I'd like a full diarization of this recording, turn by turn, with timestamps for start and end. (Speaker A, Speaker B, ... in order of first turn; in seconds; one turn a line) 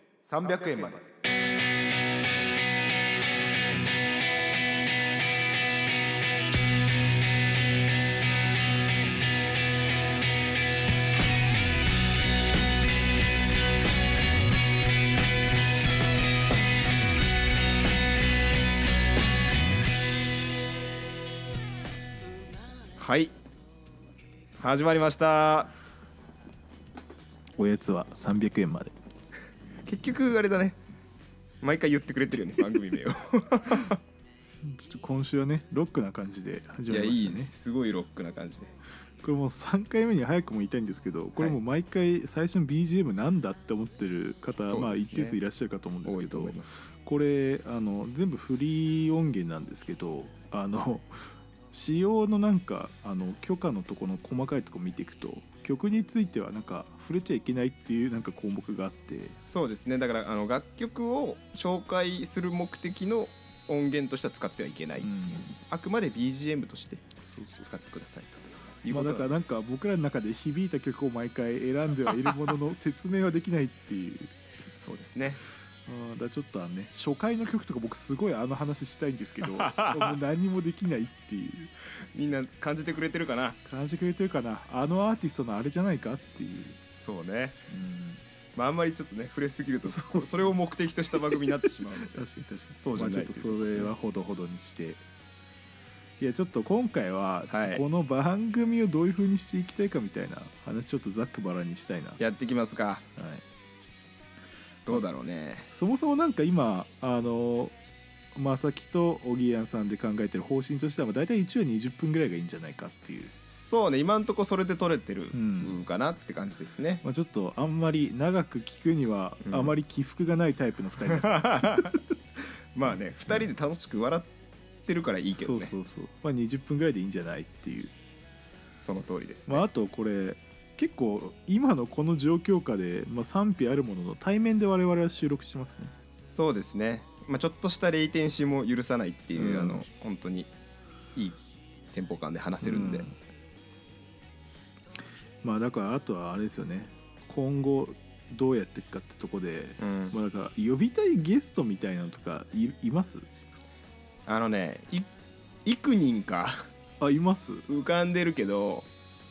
Speaker A: 0.3-1.1
Speaker B: 0.4-0.9
Speaker A: 23.0-23.3
Speaker A: 24.6-25.7
Speaker B: 27.6-28.9
Speaker A: 29.9-30.8
Speaker A: 31.6-34.0
Speaker B: 34.6-37.5
Speaker A: 36.9-38.7
Speaker B: 39.2-59.4
Speaker A: 44.6-45.4
Speaker A: 46.0-46.9
Speaker A: 59.5-67.0
Speaker B: 65.0-65.5
Speaker B: 67.3-67.7
Speaker A: 67.6-69.3
Speaker B: 68.9-74.3
Speaker A: 72.1-72.6
Speaker A: 74.7-75.5
Speaker B: 75.9-81.7
Speaker A: 79.4-80.2
Speaker A: 82.1-83.6
Speaker B: 83.7-86.8
Speaker A: 86.9-87.6
Speaker B: 87.7-88.2
Speaker A: 88.5-92.2
Speaker B: 89.8-90.6
Speaker B: 91.1-95.0
Speaker A: 92.8-93.9
Speaker B: 96.2-102.2
Speaker A: 97.5-97.8
Speaker A: 102.2-103.0
Speaker B: 103.2-103.4
Speaker A: 104.9-105.7
Speaker B: 104.9-105.2
Speaker B: 105.7-107.7
Speaker B: 108.3-113.3
Speaker A: 113.5-117.0
Speaker B: 115.3-115.8
Speaker B: 117.0-122.0
Speaker A: 119.4-119.8
Speaker A: 121.1-122.0
Speaker A: 122.7-124.3
Speaker B: 122.9-123.4
Speaker A: 124.9-125.7
Speaker B: 125.3-127.9
Speaker A: 128.8-129.7
Speaker B: 129.5-135.9
Speaker A: 136.3-140.5
Speaker B: 139.3-139.9
Speaker A: 141.2-141.4
Speaker A: 141.9-143.1
Speaker B: 142.6-143.1
Speaker B: 145.4-153.3
Speaker A: 149.8-150.2
Speaker A: 154.3-155.1
Speaker A: 155.7-156.7
Speaker B: 157.0-157.7
Speaker A: 157.7-158.9